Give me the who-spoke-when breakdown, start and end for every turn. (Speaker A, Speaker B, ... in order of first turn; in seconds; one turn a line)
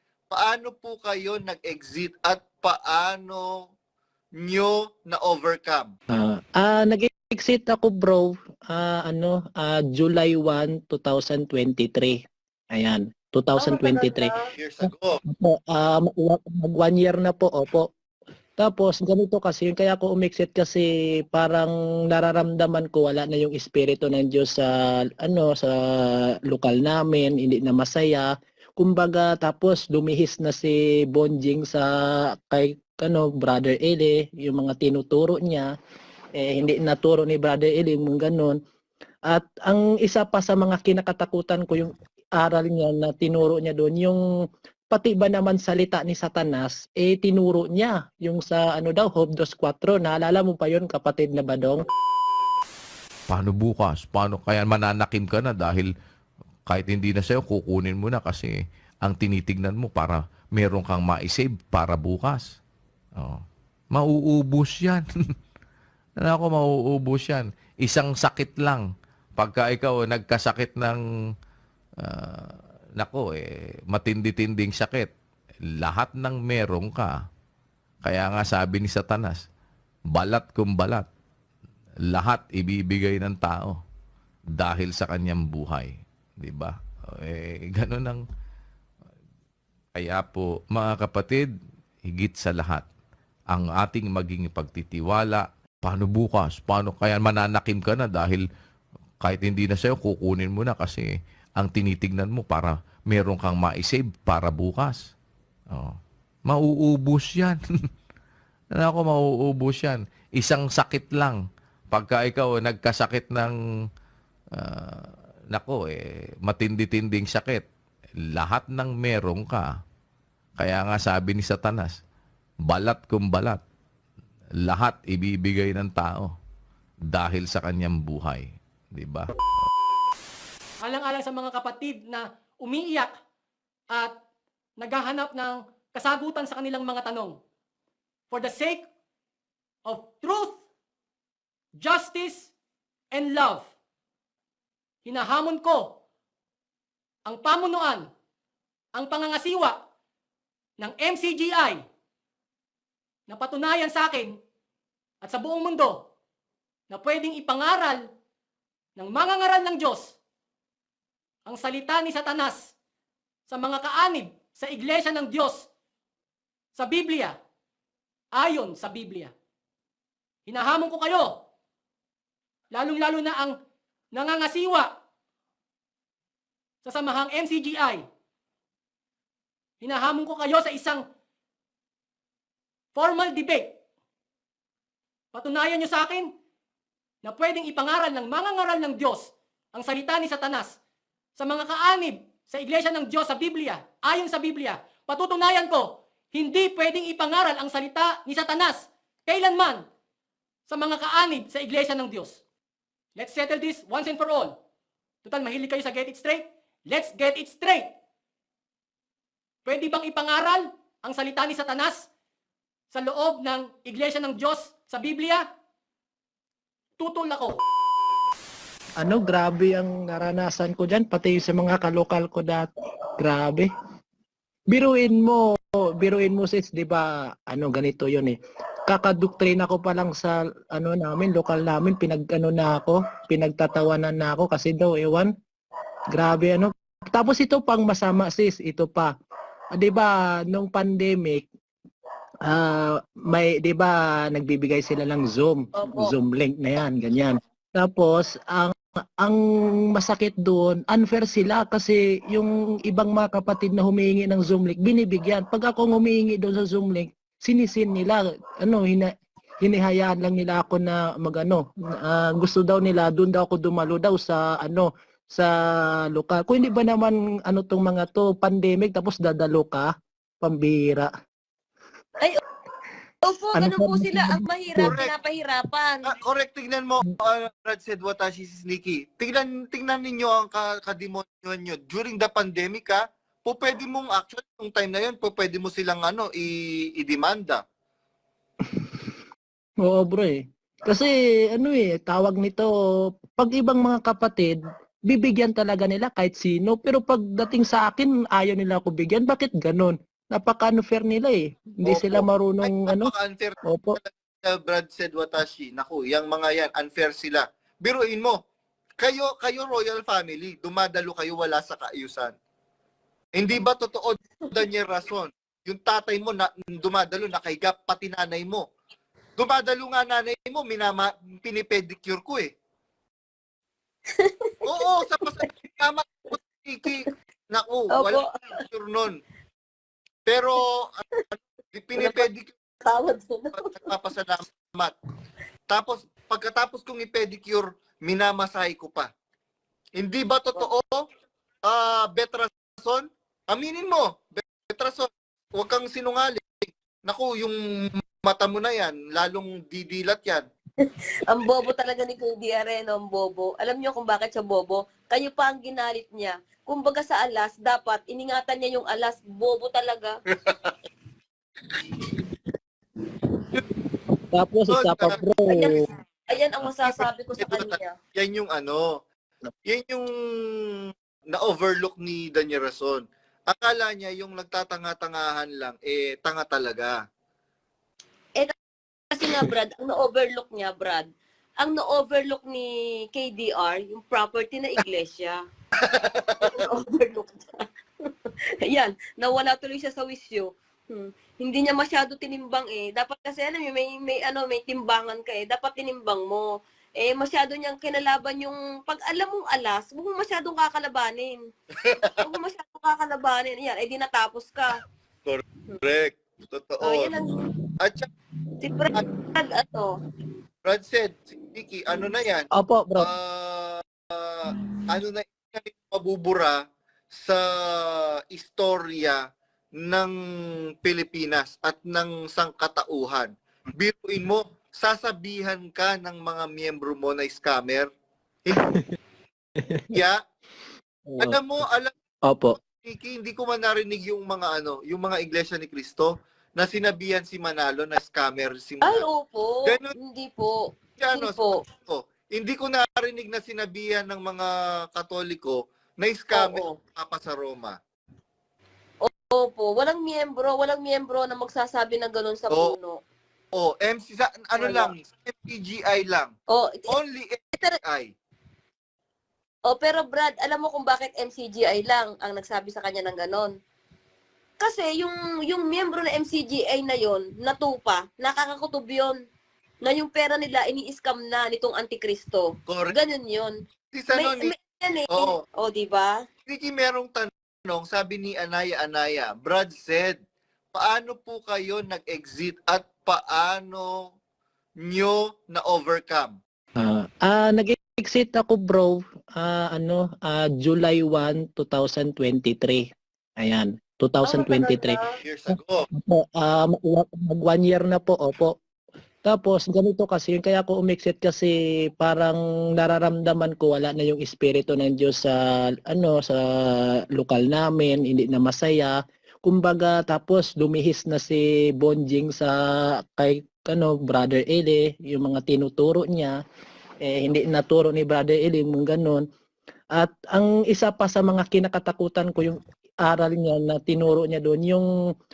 Speaker A: 0.3-3.7
Speaker A: 4.4-5.9
Speaker B: 6.1-12.2
Speaker B: 12.7-17.9
Speaker C: 13.6-14.4
Speaker A: 14.6-15.2
Speaker B: 18.6-31.9
Speaker B: 32.5-35.7
Speaker B: 36.4-38.6
Speaker B: 39.3-44.2
Speaker B: 44.9-51.8
Speaker D: 53.3-55.9
Speaker D: 56.7-62.5
Speaker D: 63.1-65.0
Speaker D: 66.2-68.8
Speaker D: 69.4-71.0
Speaker D: 72.0-75.1
Speaker D: 75.8-77.2
Speaker D: 78.0-79.4
Speaker D: 80.1-81.1
Speaker D: 82.1-83.8
Speaker D: 84.5-88.2
Speaker D: 89.9-91.5
Speaker D: 92.0-92.8
Speaker D: 93.5-98.4
Speaker D: 99.2-105.1
Speaker D: 105.7-107.6
Speaker D: 108.7-111.4
Speaker D: 111.9-113.5
Speaker D: 114.5-117.7
Speaker D: 118.3-119.7
Speaker D: 120.6-122.0
Speaker D: 122.6-123.6
Speaker D: 124.6-126.3
Speaker D: 127.0-129.3
Speaker E: 130.8-133.2
Speaker E: 133.9-134.2
Speaker E: 134.8-137.4
Speaker E: 138.3-138.9
Speaker E: 139.8-140.6
Speaker E: 141.7-142.5
Speaker E: 143.1-143.7
Speaker E: 145.0-146.0
Speaker E: 147.2-148.1
Speaker E: 148.9-149.8
Speaker E: 150.8-151.8
Speaker E: 153.3-154.4
Speaker E: 155.2-156.1
Speaker E: 156.9-158.1
Speaker E: 158.9-160.2
Speaker E: 161.4-162.7
Speaker E: 163.5-165.7
Speaker E: 166.7-167.4
Speaker E: 168.3-169.3
Speaker E: 170.5-171.4
Speaker E: 172.7-173.6
Speaker E: 174.1-174.9
Speaker E: 176.8-178.0
Speaker E: 179.8-181.0
Speaker E: 182.9-183.8
Speaker E: 185.3-186.3
Speaker E: 187.2-190.8
Speaker E: 191.4-199.8
Speaker E: 200.7-202.4
Speaker E: 203.2-204.6
Speaker E: 205.2-207.9
Speaker E: 209.6-212.1
Speaker E: 212.9-215.4
Speaker E: 217.0-217.6
Speaker B: 219.0-222.7
Speaker B: 223.2-223.7
Speaker B: 224.7-225.4
Speaker B: 226.0-228.3
Speaker B: 228.9-235.3
Speaker B: 236.1-239.1
Speaker B: 239.7-241.4
Speaker B: 242.5-249.4
Speaker C: 245.8-246.1
Speaker B: 249.9-259.1
Speaker B: 259.6-265.5
Speaker B: 266.1-269.9
Speaker B: 270.4-271.1
Speaker C: 273.2-276.1
Speaker B: 273.5-275.0
Speaker A: 274.8-275.1
Speaker A: 276.1-287.6
Speaker B: 289.8-292.7
Speaker B: 293.3-303.1
Speaker A: 301.8-308.4
Speaker B: 303.6-304.0
Speaker A: 309.0-312.3
Speaker A: 313.3-318.6
Speaker A: 319.4-322.5
Speaker C: 324.2-324.6
Speaker A: 324.6-329.1
Speaker C: 327.9-328.6
Speaker A: 330.2-332.5
Speaker C: 332.0-332.2
Speaker C: 332.8-333.9
Speaker A: 333.8-334.9
Speaker A: 335.7-339.1
Speaker A: 340.0-341.0
Speaker A: 341.6-350.4
Speaker C: 350.8-360.1
Speaker B: 364.3-365.7
Speaker A: 364.7-365.2
Speaker C: 365.5-367.9
Speaker A: 366.8-369.0
Speaker A: 369.7-370.1
Speaker A: 371.3-377.0
Speaker C: 379.1-381.1
Speaker C: 381.6-385.4
Speaker A: 385.9-386.6
Speaker C: 386.4-387.6
Speaker C: 388.6-396.5
Speaker C: 397.0-401.4
Speaker C: 402.2-404.8
Speaker A: 405.2-407.1
Speaker C: 406.8-407.4
Speaker A: 407.8-408.1
Speaker C: 408.6-409.9
Speaker A: 410.6-419.2
Speaker B: 412.5-413.1
Speaker A: 419.8-420.1
Speaker A: 420.8-427.9
Speaker B: 428.5-428.8
Speaker B: 429.6-429.9
Speaker B: 431.1-431.4
Speaker A: 431.2-431.9
Speaker B: 432.2-432.6
Speaker A: 432.7-439.0
Speaker C: 438.8-440.6
Speaker A: 441.0-447.8
Speaker C: 441.1-441.5
Speaker C: 446.3-446.8
Speaker C: 449.0-453.0
Speaker A: 453.5-456.3
Speaker C: 454.6-454.9
Speaker C: 456.5-456.9
Speaker A: 456.9-458.1
Speaker C: 459.7-463.5
Speaker C: 464.6-469.2
Speaker C: 469.8-473.5
Speaker A: 472.7-472.9
Speaker A: 473.9-474.5
Speaker C: 474.1-476.2
Speaker A: 476.5-480.2
Speaker A: 480.7-484.1
Speaker A: 484.8-486.4
Speaker B: 486.8-492.8
Speaker B: 493.4-495.0
Speaker C: 494.2-495.1
Speaker A: 495.2-495.8
Speaker B: 495.5-498.5
Speaker B: 499.2-512.6
Speaker B: 513.2-516.4
Speaker B: 517.0-519.2
Speaker B: 519.9-524.9